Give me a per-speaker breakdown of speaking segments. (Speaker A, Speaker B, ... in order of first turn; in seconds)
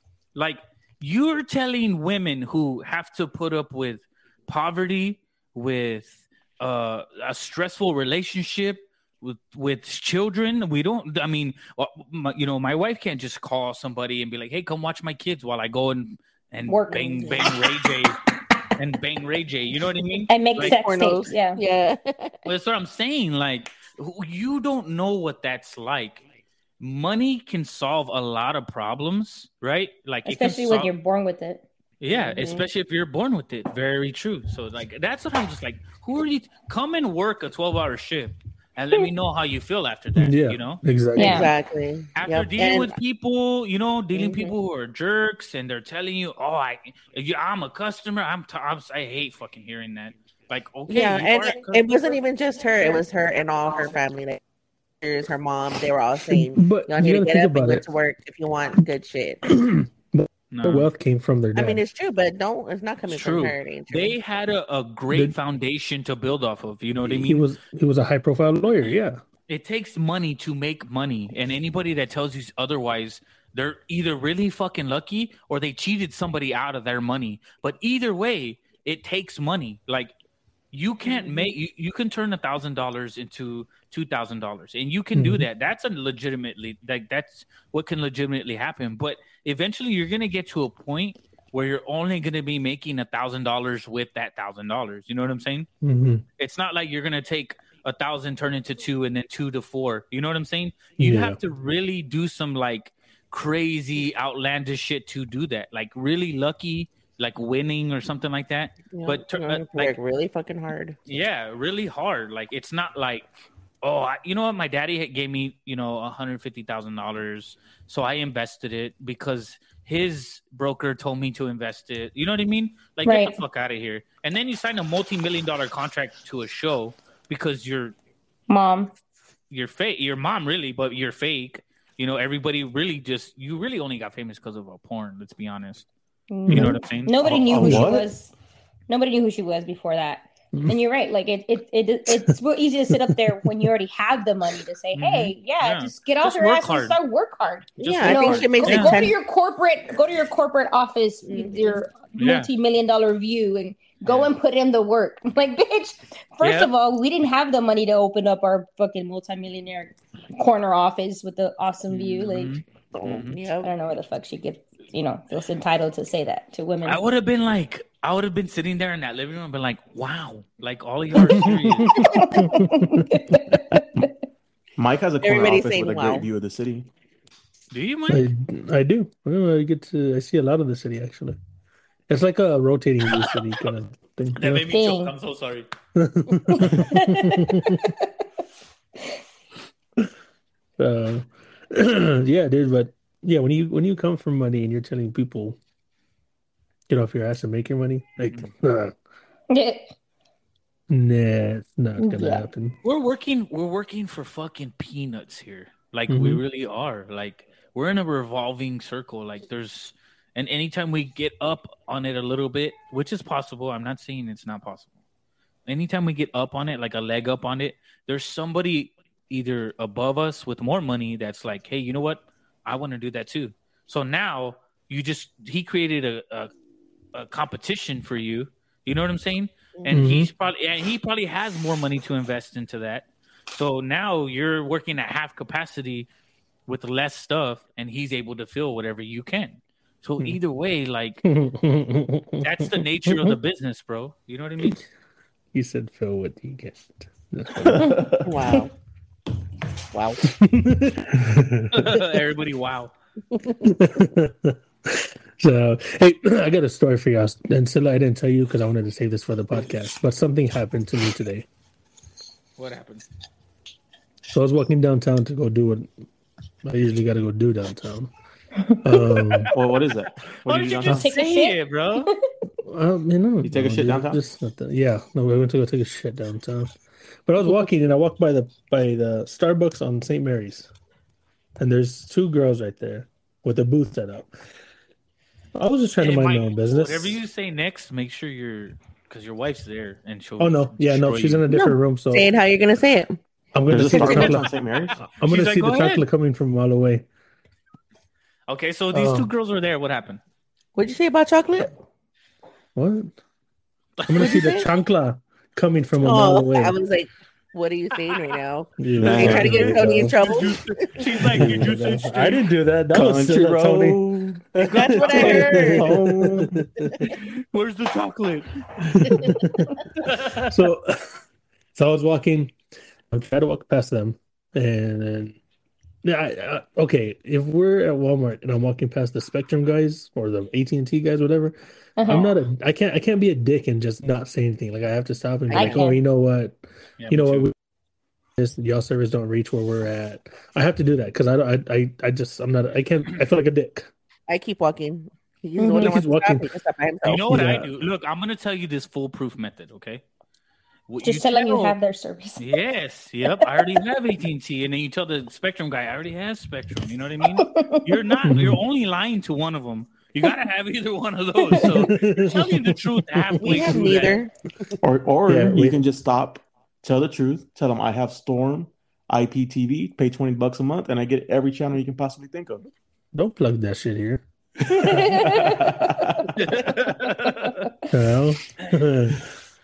Speaker A: 0.3-18.2, 18.8-20.8, 22.4-26.2, 26.8-30.9, 32.0-40.8, 42.2-52.0, 60.5-60.9, 63.1-67.5, 69.5-80.1, 80.7-95.7, 96.4-110.0, 111.1-113.3, 113.8-128.0, 129.5-135.9, 136.5-137.8, 144.9-147.0, 147.8-149.0, 152.2-152.5, 156.4-156.7, 161.9-163.4, 166.9-172.3, 177.7-178.3, 184.4-185.7, 202.8-214.9, 215.7-226.5, 227.1-236.1, 236.7-241.2, 242.4-244.8, 251.7-252.9, 262.6-263.1, 270.5-272.1, 286.0-291.4, 295.1-296.1, 298.5-300.2, 304.0-304.6, 309.1-312.5, 314.7-315.7, 317.0-319.3, 320.0-320.5, 337.0-337.5, 347.1-350.0, 350.9-351.8, 352.4-364.2, 376.4-377.7
Speaker B: 16.7-17.5, 20.3-21.6, 30.2-31.6, 41.2-41.5, 123.0-123.4, 128.5-128.9, 136.3-138.3, 138.9-162.6, 163.6-167.0, 171.9-174.1, 184.7-185.1, 186.4-188.1, 199.5-199.9, 202.0-202.5, 270.9-272.1, 332.0-332.3, 335.5-336.0, 345.6-346.0, 351.0-352.4, 357.4-358.1, 361.4-361.8, 374.7-376.1, 377.4-377.8
Speaker C: 16.9-17.6, 20.6-22.4, 32.1-32.7, 41.2-43.0, 44.1-44.5, 50.9-54.4, 55.0-59.4, 61.5-64.2, 81.0-81.5, 108.9-111.0, 147.8-149.2, 151.3-151.6, 162.9-163.7, 175.2-176.3, 248.2-248.7, 249.9-250.2, 291.5-293.2, 293.9-294.4, 300.8-301.7, 304.1-304.7, 306.0-311.4, 314.6-316.0, 316.8-317.1, 335.5-335.9, 344.3-347.3, 363.4-364.7
Speaker D: 40.1-41.5, 56.3-57.9, 59.5-61.8, 67.1-69.2, 85.1-85.5, 95.8-96.2, 101.0-101.4, 136.5-136.8, 137.6-137.9, 142.9-143.6, 171.1-173.6, 178.1-181.4, 182.1-184.7, 185.9-187.9, 190.8-195.6, 196.9-198.9, 200.9-202.8, 206.1-206.4, 229.9-230.3, 241.2-243.4, 245.5-248.2, 250.2-251.9, 253.6-261.5, 264.3-265.9, 266.6-268.1, 268.8-269.5, 272.6-276.7, 277.3-280.7, 281.6-284.3, 285.6-287.2, 290.4-292.3, 293.5-294.5, 295.0-297.1, 298.9-299.3, 302.8-303.1, 304.1-306.8, 308.8-310.2, 311.4-314.0, 314.6-317.1, 318.9-321.2, 321.7-322.5, 323.1-325.4, 326.0-336.6, 337.1-337.5, 338.4-343.9, 345.7-346.5, 347.3-347.7, 358.2-358.6, 361.7-363.9, 365.3-365.8, 373.1-374.2, 374.9-375.4, 377.9-379.2
Speaker E: 137.5-138.1, 174.8-176.9, 247.7-248.3, 269.5-271.0, 273.4-274.2, 293.7-295.0, 309.0-309.7, 312.9-316.7, 364.8-372.6, 374.7-376.4